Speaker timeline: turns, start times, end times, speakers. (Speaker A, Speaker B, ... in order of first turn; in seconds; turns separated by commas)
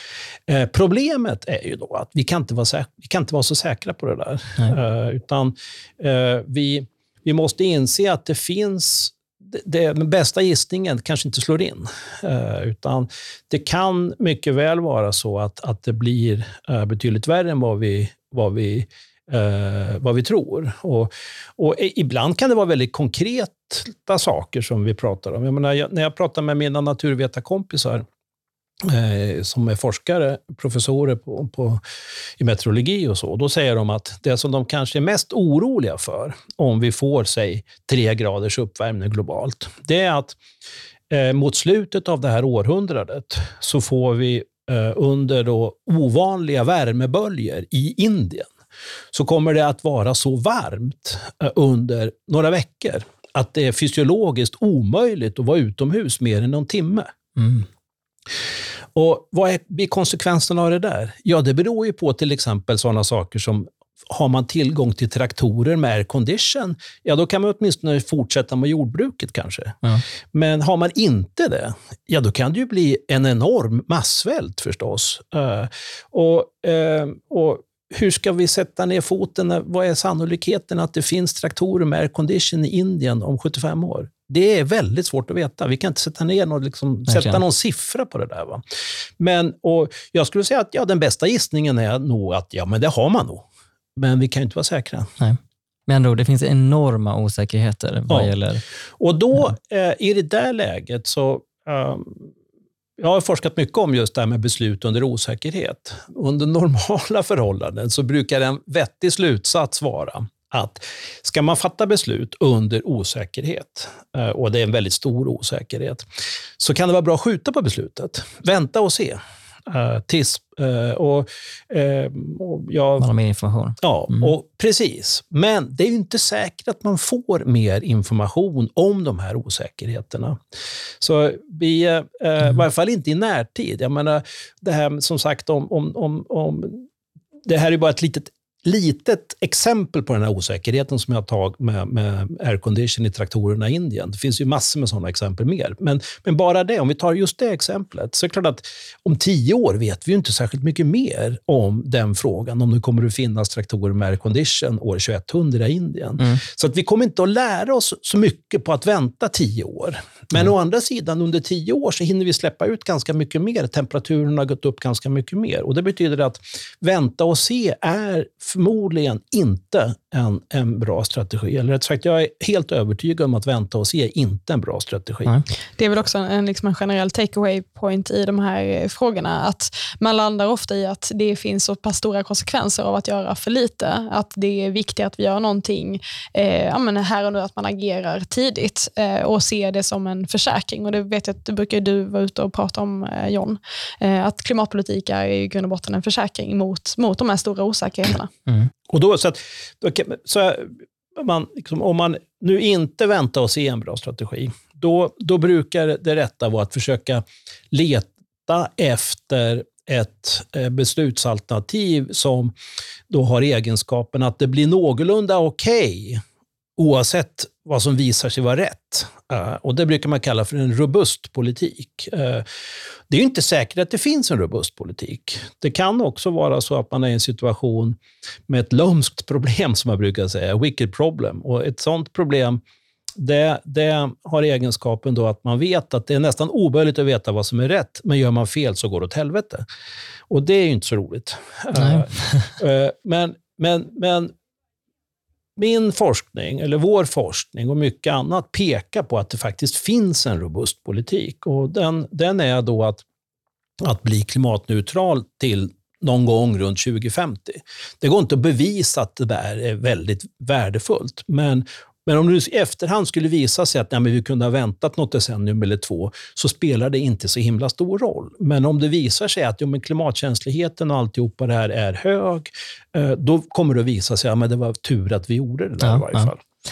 Speaker A: 0.5-28.1, Speaker A: 28.8-31.8, Speaker A: 32.4-40.4, Speaker A: 41.1-48.5, Speaker A: 49.1-57.1, Speaker B: 57.4-57.6, Speaker A: 59.0-69.8, Speaker A: 70.3-88.6, Speaker B: 87.1-87.4, Speaker A: 89.2-95.1, Speaker B: 95.2-98.6, Speaker A: 98.1-98.3, Speaker A: 99.0-102.3, Speaker A: 103.0-116.0, Speaker A: 116.6-123.1, Speaker B: 123.0-124.3, Speaker A: 123.8-130.4, Speaker A: 131.0-136.9, Speaker A: 137.5-175.3, Speaker C: 175.8-198.3, Speaker A: 198.9-212.5, Speaker A: 213.1-216.2, Speaker A: 216.8-222.4, Speaker A: 223.1-232.6, Speaker A: 233.2-239.7, Speaker A: 240.3-244.3, Speaker B: 241.8-242.5, Speaker A: 245.6-253.0, Speaker A: 253.8-276.4, Speaker B: 275.8-276.3